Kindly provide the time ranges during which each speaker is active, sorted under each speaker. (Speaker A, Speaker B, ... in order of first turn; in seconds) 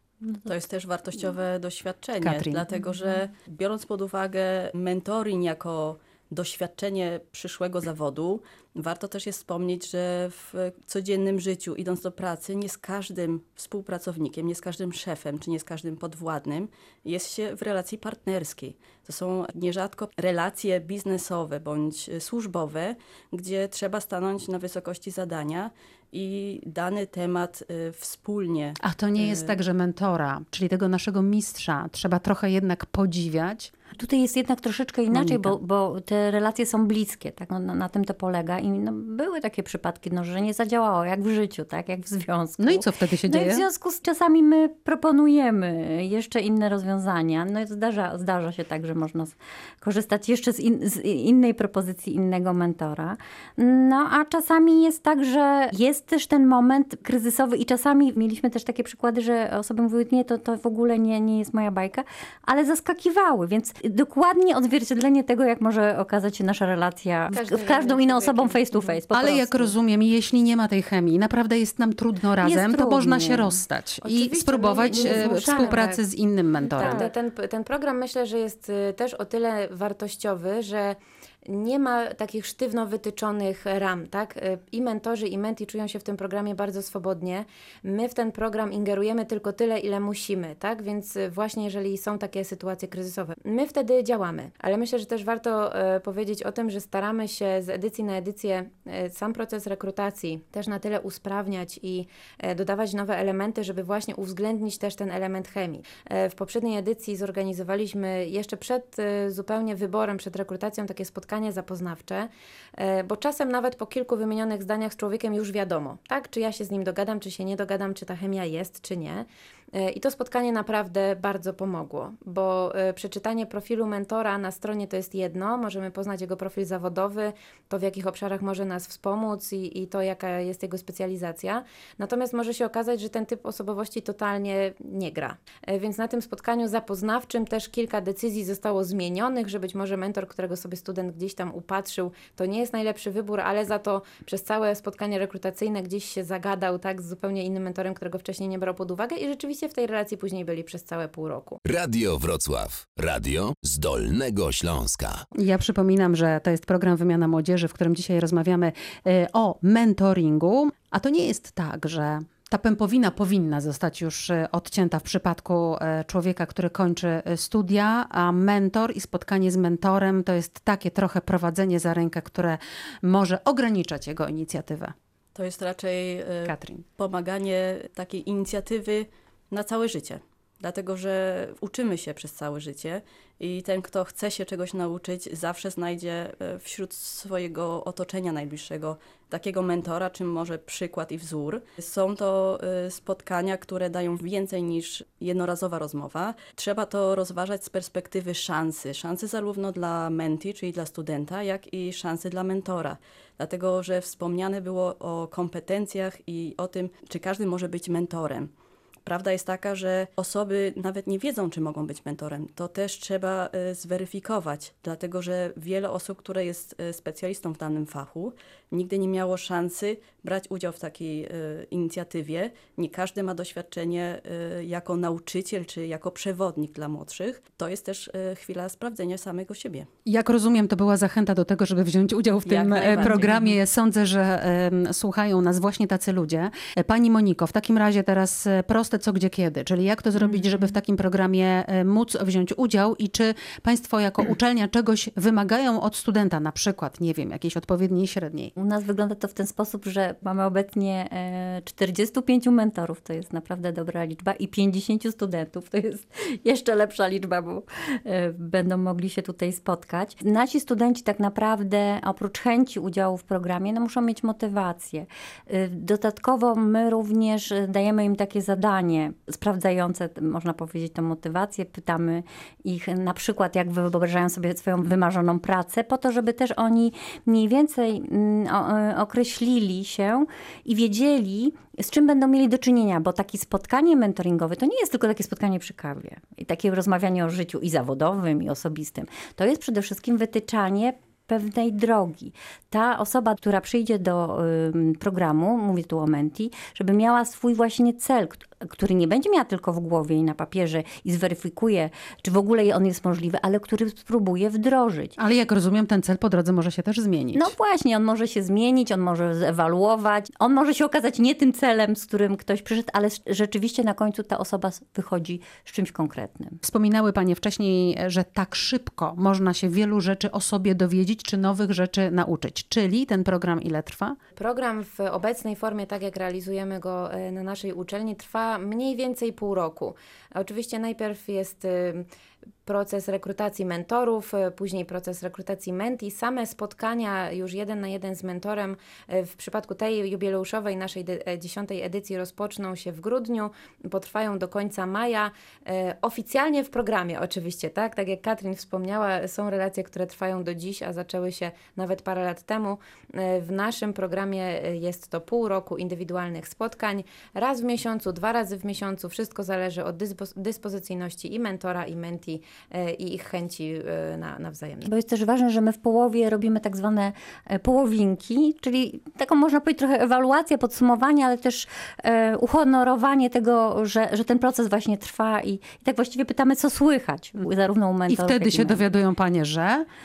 Speaker A: 0.4-29.6, 175.3-208.5, 209.0-229.9, 232.4-233.3
Speaker B: 2.2-2.6, 28.8-33.7, 35.1-35.5, 42.6-43.6, 69.1-77.0, 155.3-174.9, 176.4-176.8, 230.1-248.5, 305.2-307.5, 316.6-324.2, 378.1-379.9
Speaker C: 33.9-69.7, 72.4-73.6, 74.9-75.8, 76.8-77.1, 233.0-233.5, 240.2-240.7, 248.6-305.1, 307.3-316.6, 364.8-378.8
Speaker D: 67.3-69.0, 74.0-76.0, 76.7-151.6, 324.4-332.0, 332.6-364.9
Speaker E: 151.6-155.2